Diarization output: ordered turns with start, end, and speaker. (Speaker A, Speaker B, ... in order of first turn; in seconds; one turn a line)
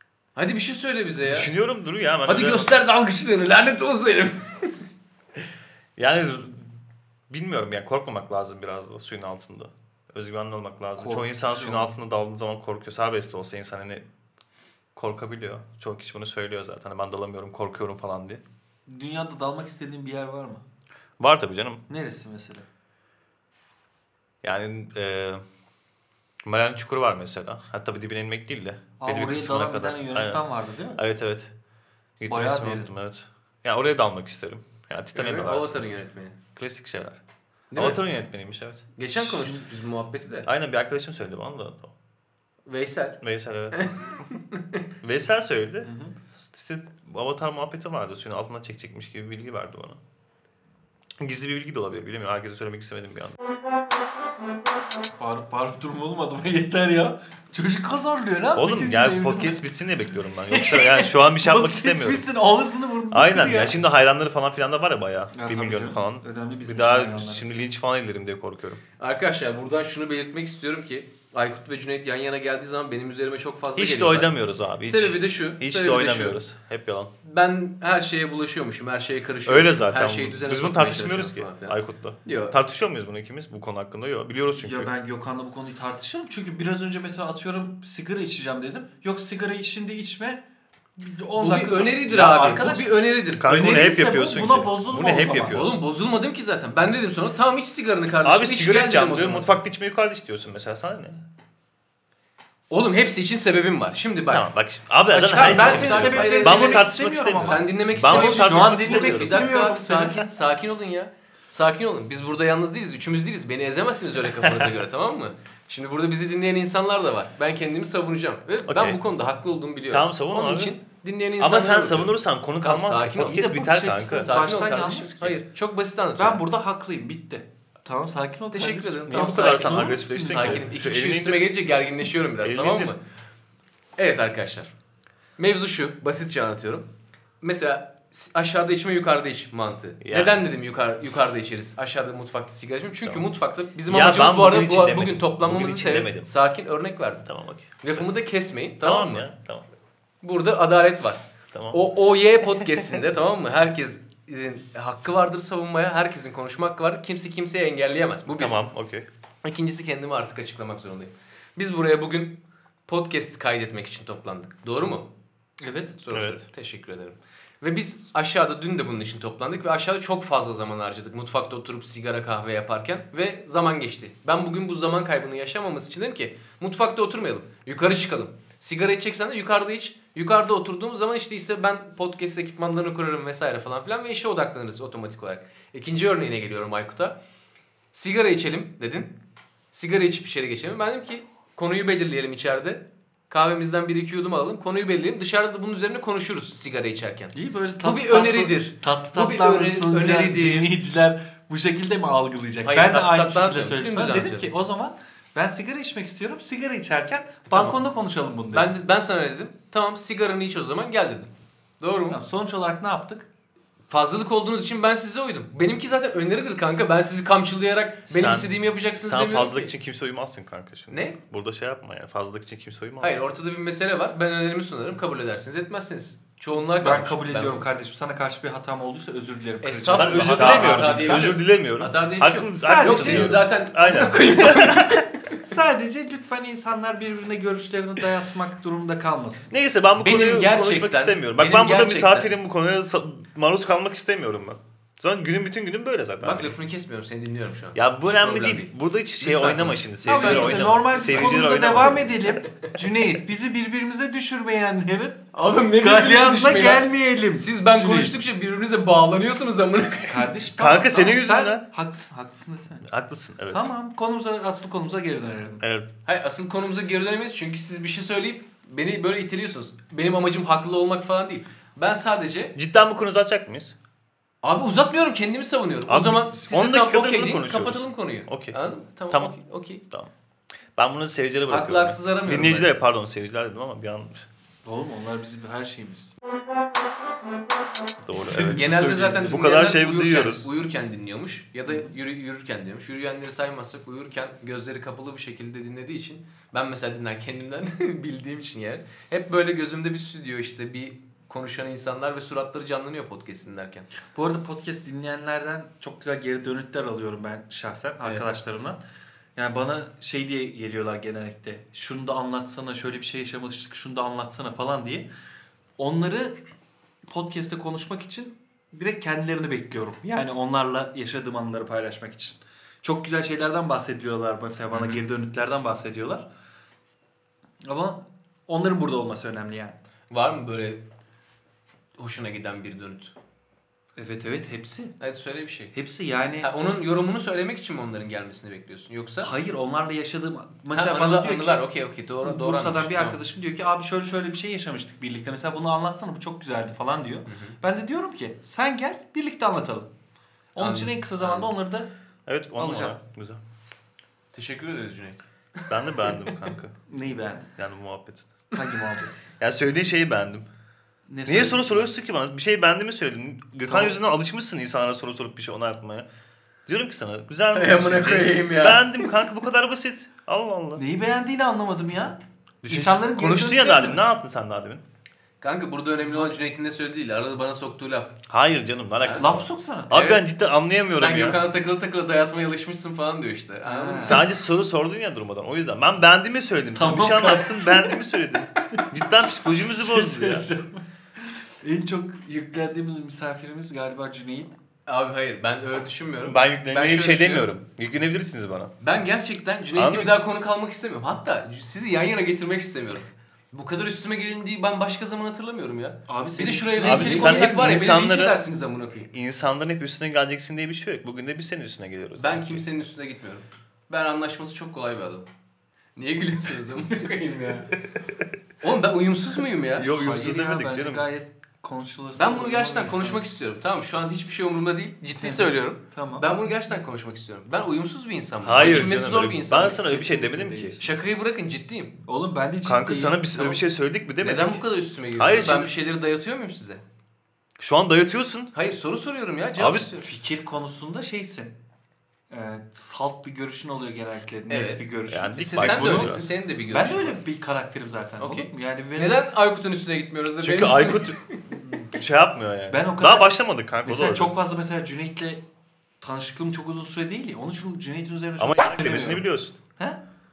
Speaker A: 0.4-1.5
Speaker B: 1.2-2.7
Speaker A: 2.3-4.8
Speaker B: 6.0-6.8
Speaker B: 7.3-14.0
Speaker C: 11.0-11.9
Speaker B: 14.9-18.4
Speaker C: 18.9-20.6
Speaker B: 21.2-21.8
Speaker C: 21.9-22.6
Speaker B: 24.4-25.4
Speaker B: 26.4-30.4
Speaker C: 29.0-31.0
Speaker B: 31.0-31.5
Speaker B: 32.2-35.8
Speaker C: 32.3-32.9
Speaker A: 35.1-36.4
Speaker B: 36.6-37.2
Speaker A: 37.7-38.0
Speaker B: 37.8-38.8
Speaker A: 39.0-40.5
Speaker C: 39.2-39.6
Speaker B: 40.5-41.9
Speaker A: 42.7-43.2
Speaker B: 43.2-44.1
Speaker A: 43.7-44.8
Speaker B: 45.0-50.0
Speaker C: 45.8-46.2
Speaker B: 51.2-53.4
Speaker C: 55.2-59.6
Speaker B: 58.5-62.3
Speaker C: 60.5-63.8
Speaker B: 63.1-68.8
Speaker C: 65.3-67.6
Speaker A: 69.0-76.4
Speaker B: 73.8-77.1
Speaker A: 77.2-82.5
Speaker B: 79.5-84.9
Speaker C: 84.6-90.4
Speaker C: 91.0-95.6
Speaker A: 91.4-93.5
Speaker B: 93.4-95.8
Speaker A: 95.5-99.5
Speaker B: 98.2-101.3
Speaker A: 102.7-104.5
Speaker B: 104.3-109.5
Speaker A: 105.1-123.4
Speaker C: 105.3-110.3
Speaker B: 114.4-114.7
Speaker B: 118.7-119.0
Speaker B: 119.9-120.8
Speaker B: 121.4-124.3
Speaker C: 123.2-125.4
Speaker A: 124.2-126.4
Speaker C: 126.2-130.7
Speaker A: 128.5-133.0
Speaker B: 129.1-131.5
Speaker B: 132.4-133.0
Speaker A: 134.0-134.7
Speaker A: 135.4-136.9
Speaker A: 137.4-147.3
Speaker B: 140.0-140.4
Speaker B: 143.9-146.3
Speaker B: 147.2-148.1
Speaker A: 147.8-149.3
Speaker B: 148.8-149.7
Speaker A: 150.2-158.6
Speaker B: 151.5-151.8
Speaker B: 158.4-159.1
Speaker A: 159.4-165.1
Speaker C: 165.6-166.0
Speaker A: 166.0-187.2
Speaker B: 166.1-166.4
Speaker A: 187.9-189.2
Speaker A: 189.7-200.7
Speaker C: 197.3-208.7
Speaker A: 202.6-204.5
Speaker A: 207.5-207.8
Speaker A: 208.5-212.2
Speaker C: 212.1-213.3
Speaker A: 213.9-219.7
Speaker B: 218.1-223.2
Speaker A: 220.9-221.2
Speaker A: 223.0-227.7
Speaker C: 226.7-231.4
Speaker A: 229.6-235.4
Speaker B: 229.9-235.1
Speaker C: 232.6-233.5
Speaker C: 235.4-239.5
Speaker B: 239.5-246.5
Speaker A: 240.0-242.3
Speaker A: 246.2-251.5
Speaker B: 247.8-252.4
Speaker C: 250.1-258.2
Speaker A: 255.3-260.3
Speaker C: 260.1-262.9
Speaker B: 260.6-261.7
Speaker B: 262.9-263.7
Speaker C: 263.5-265.6
Speaker B: 265.6-265.9
Speaker A: 266.1-272.6
Speaker B: 272.6-273.7
Speaker A: 274.4-279.8
Speaker B: 275.9-278.6
Speaker B: 279.1-279.4
Speaker B: 280.8-284.3
Speaker A: 281.5-282.8
Speaker C: 284.6-286.2
Speaker B: 288.0-290.5
Speaker C: 288.1-289.5
Speaker A: 288.5-303.9
Speaker C: 291.7-291.9
Speaker C: 304.1-308.8
Speaker A: 308.0-308.3
Speaker C: 309.4-315.1
Speaker C: 315.8-316.4
Speaker C: 317.1-326.3
Speaker A: 324.7-325.0
Speaker C: 327.6-329.8
Speaker A: 330.1-330.9
Speaker A: 332.0-333.1
Speaker C: 334.0-335.0
Speaker A: 335.0-335.7
Speaker C: 335.7-336.5
Speaker A: 336.4-339.3
Speaker C: 339.2-341.7
Speaker A: 340.7-343.2
Speaker C: 342.2-349.9
Speaker A: 347.3-347.6
Speaker C: 350.6-351.9
Speaker A: 350.6-351.5
Speaker B: 352.3-353.4
Speaker C: 352.6-353.0
Speaker A: 354.3-355.7
Speaker B: 355.7-356.7
Speaker C: 356.9-357.5
Speaker B: 357.6-358.3
Speaker C: 358.5-359.2
Speaker B: 359.4-360.5
Speaker C: 361.1-361.9
Speaker B: 361.3-366.1
Speaker C: 363.7-364.0
Speaker B: 366.7-370.8
Speaker A: 367.5-369.0
Speaker C: 370.8-374.0
Speaker B: 372.6-374.8
Speaker A: 375.4-378.2
Speaker C: 376.1-376.4
Speaker B: 378.3-381.4
Speaker A: 379.0-379.3
Speaker C: 379.2-379.9
Speaker A: 379.9-380.2
Speaker A: 380.9-384.2
Speaker C: 383.6-384.3
Speaker B: 384.0-390.5
Speaker C: 386.8-388.0
Speaker C: 389.5-390.9
Speaker C: 391.6-394.6
Speaker A: 394.9-397.5
Speaker B: 396.2-398.7
Speaker A: 398.8-409.1
Speaker B: 399.8-400.2
Speaker C: 406.1-407.9
Speaker B: 406.8-408.4
Speaker B: 409.1-412.6
Speaker A: 412.2-415.3
Speaker A: 416.0-417.8
Speaker B: 418.0-418.2
Speaker A: 418.6-419.9
Speaker B: 419.8-421.1
Speaker C: 420.0-423.3
Speaker A: 422.2-429.9
Speaker C: 425.2-426.3
Speaker B: 428.4-430.8
Speaker C: 429.8-431.0
Speaker A: 430.8-432.0
Speaker C: 432.1-433.6
Speaker B: 432.6-434.6
Speaker A: 434.2-436.8
Speaker B: 435.2-435.7
Speaker B: 437.6-438.5
Speaker A: 438.5-440.1
Speaker B: 439.6-439.9
Speaker C: 440.0-441.6
Speaker C: 442.3-449.2
Speaker A: 444.5-444.9
Speaker B: 445.1-446.3
Speaker A: 445.4-447.2
Speaker A: 448.2-451.6
Speaker B: 450.4-454.4
Speaker C: 452.7-455.4
Speaker C: 456.0-459.2
Speaker B: 458.4-459.6